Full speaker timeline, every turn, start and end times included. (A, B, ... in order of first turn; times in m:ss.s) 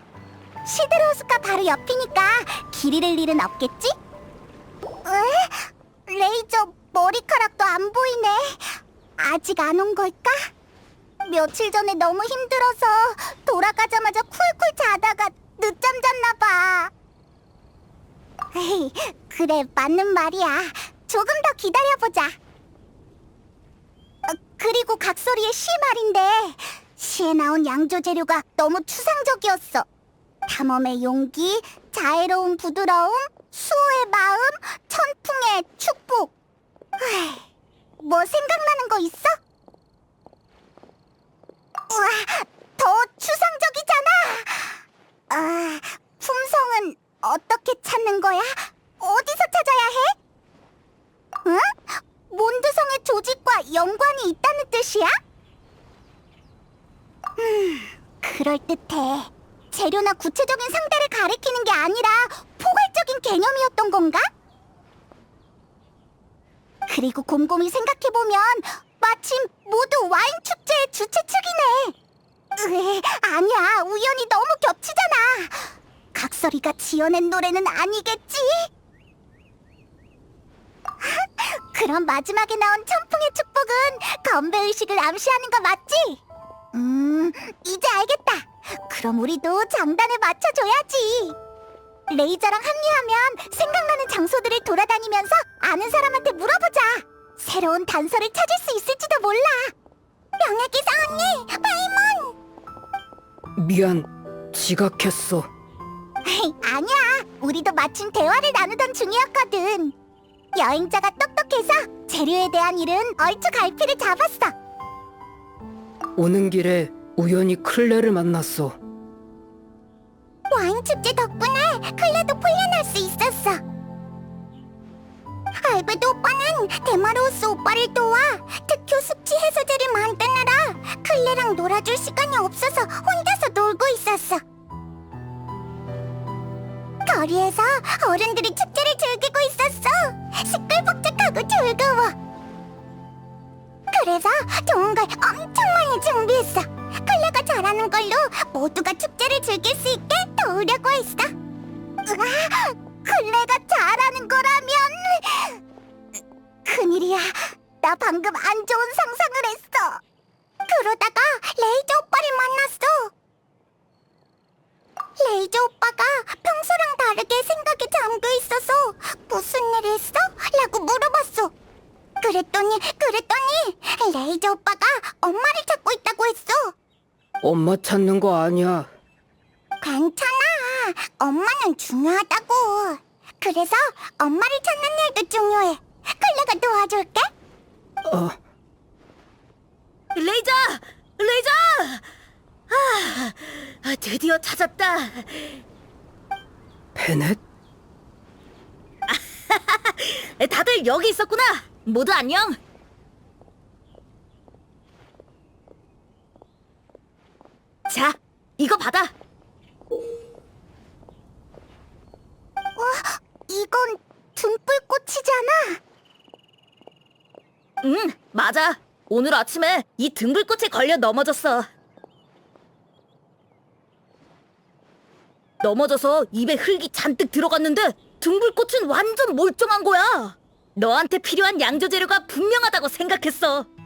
0:00.6-0:04.0 A
0:05.0-0:10.5 A
0:11.2-0:16.9 A
0:18.5-0:22.4 A
0:24.3-0:29.8 A
0:30.5-0:36.3 A
0:37.0-0:37.4 A
0:38.0-0:39.4 A
0:41.9-0:50.2 A
0:51.4-0:55.2 A
0:57.4-1:04.3 A
1:06.9-1:11.9 A
1:12.6-1:18.7 A
1:21.0-1:26.2 A
1:26.7-1:31.4 A
1:32.1-1:39.7 A
1:40.4-1:42.3 A
1:43.6-1:45.5 B
1:46.2-1:49.9 A
1:50.5-1:54.5 A
1:56.2-1:58.8 B
2:00.5-2:03.6 A
2:05.6-2:14.4 A
2:17.0-2:22.1 A
2:23.9-2:31.3 A
2:32.0-2:35.6 A
2:36.2-2:40.0 A
2:40.7-2:43.1 A
2:45.2-2:51.5 A
2:52.2-2:56.7 A
2:57.4-2:58.9 B
2:59.8-3:07.3 A
3:08.0-3:08.4 B
3:10.1-3:12.0 C
3:12.7-3:15.6 C
3:16.9-3:17.4 B
3:19.1-3:22.6 C
3:27.9-3:29.1 C
3:32.8-3:35.8 A
3:37.8-3:41.6 C
3:45.6-3:53.7 C